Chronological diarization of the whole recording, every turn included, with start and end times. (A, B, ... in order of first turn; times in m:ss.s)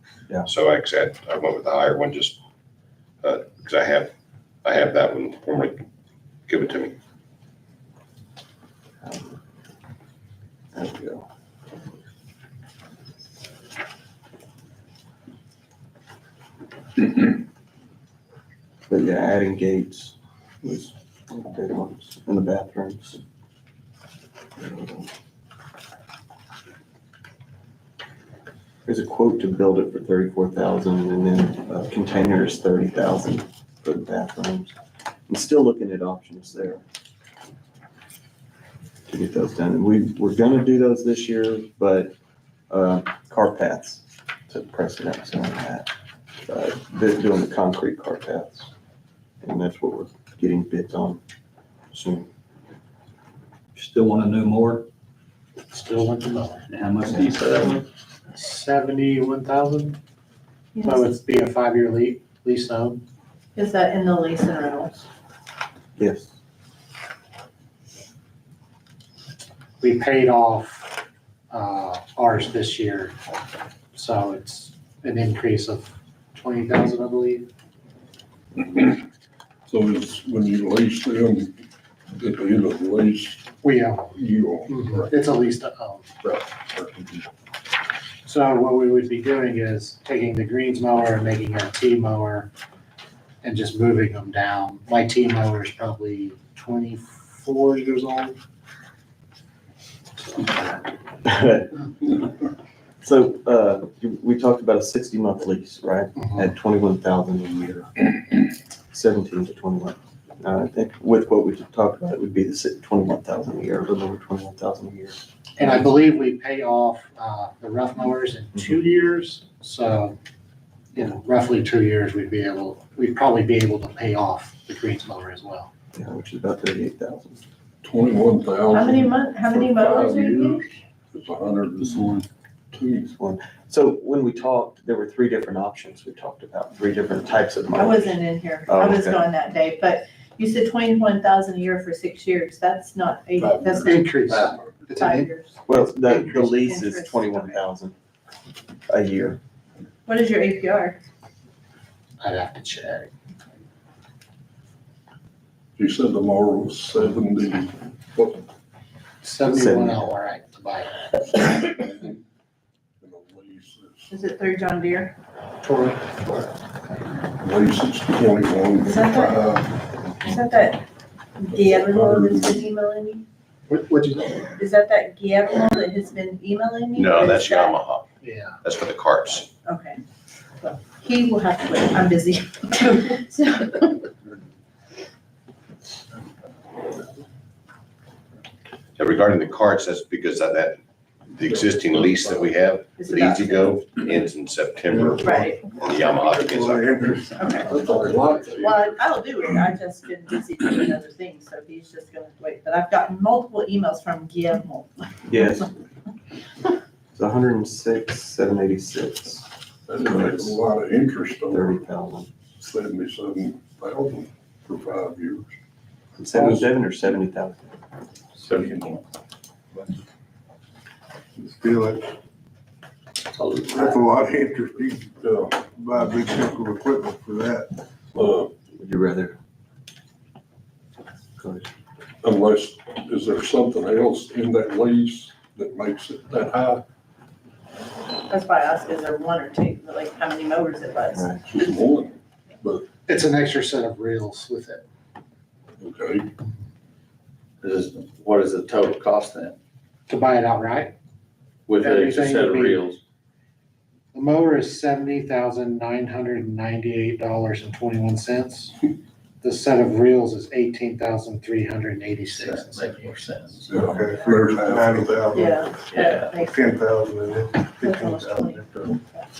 0:00.4-0:02.4 A
0:03.2-0:04.1 A
0:04.6-0:05.8 A
0:06.5-0:06.9 A
0:09.0-0:09.4 B
0:10.7-0:11.3 B
0:18.9-0:23.2 B
0:24.6-0:25.1 B
0:28.8-0:34.7 B
0:35.3-0:36.8 B
0:39.1-0:42.1 B
0:42.7-0:45.9 B
0:46.4-0:48.7 B
0:49.4-0:51.2 B
0:51.9-0:52.3 B
0:53.8-0:54.9 C
0:55.7-0:56.6 D
0:56.7-0:57.7 C
0:58.3-1:00.0 D
1:00.7-1:01.1 E
1:00.8-1:03.0 D
1:03.5-1:05.0 E
1:06.0-1:06.3 B
1:09.8-1:13.2 D
1:13.9-1:17.5 D
1:18.6-1:19.0 F
1:19.7-1:21.5 F
1:22.1-1:25.2 F
1:23.7-1:24.0 D
1:24.7-1:26.1 D
1:26.2-1:27.2 F
1:28.2-1:32.5 D
1:33.4-1:38.4 D
1:41.2-1:42.1 B
1:43.0-1:48.1 B
1:48.9-1:55.2 B
1:55.6-2:00.2 D
2:00.9-2:05.7 D
2:05.9-2:07.4 B
2:07.8-2:13.1 F
2:08.7-2:10.6 E
2:13.1-2:19.2 B
2:17.7-2:24.1 E
2:23.4-2:23.9 F
2:23.9-2:25.3 D
2:24.3-2:24.6 G
2:25.0-2:27.6 E
2:25.7-2:28.0 B
2:28.9-2:29.4 B
2:30.0-2:31.0 E
2:32.2-2:33.1 D
2:35.8-2:38.5 F
2:39.2-2:41.0 D
2:39.4-2:40.0 B
2:41.6-2:42.2 F
2:43.0-2:44.1 F
2:44.1-2:45.1 E
2:45.6-2:46.4 D
2:47.4-2:50.0 F
2:48.8-2:49.6 E
2:50.2-2:50.8 E
2:51.4-2:53.2 E
2:51.5-2:52.7 F
2:53.7-2:54.4 D
2:54.6-2:57.8 E
2:57.0-2:58.0 A
2:58.2-2:58.6 D
2:58.6-2:59.5 A
2:59.6-3:00.0 E
3:00.6-3:04.1 E
3:09.0-3:17.1 A
3:11.4-3:12.5 F
3:13.0-3:13.8 E
3:14.9-3:18.2 H
3:15.2-3:15.7 E
3:17.4-3:17.8 E
3:17.6-3:19.0 F
3:18.5-3:25.5 E
3:25.3-3:25.7 B
3:27.1-3:29.5 B
3:29.9-3:31.7 F
3:30.0-3:30.6 B
3:31.5-3:32.3 B
3:32.6-3:35.5 F
3:36.2-3:37.7 B
3:36.3-3:36.7 F
3:38.4-3:39.0 G
3:38.5-3:38.9 F
3:41.4-3:42.1 H
3:43.3-3:44.1 G
3:43.7-3:47.7 H
3:45.2-3:45.6 F
3:48.2-3:48.5 F
3:48.2-3:49.4 B
3:51.4-3:51.7 B
3:52.2-3:56.8 F
3:58.3-4:01.3 E
4:01.1-4:01.4 B
4:01.5-4:02.9 F
4:03.1-4:03.4 G
4:03.1-4:04.8 D
4:05.8-4:06.3 F
4:07.6-4:09.5 G
4:10.1-4:10.9 D
4:11.7-4:13.0 G
4:11.8-4:12.8 D
4:14.1-4:18.8 D
4:19.4-4:23.3 D
4:22.2-4:23.8 G
4:23.7-4:25.4 F
4:23.8-4:28.9 H
4:25.3-4:26.5 E
4:25.9-4:26.3 G
4:27.8-4:29.3 E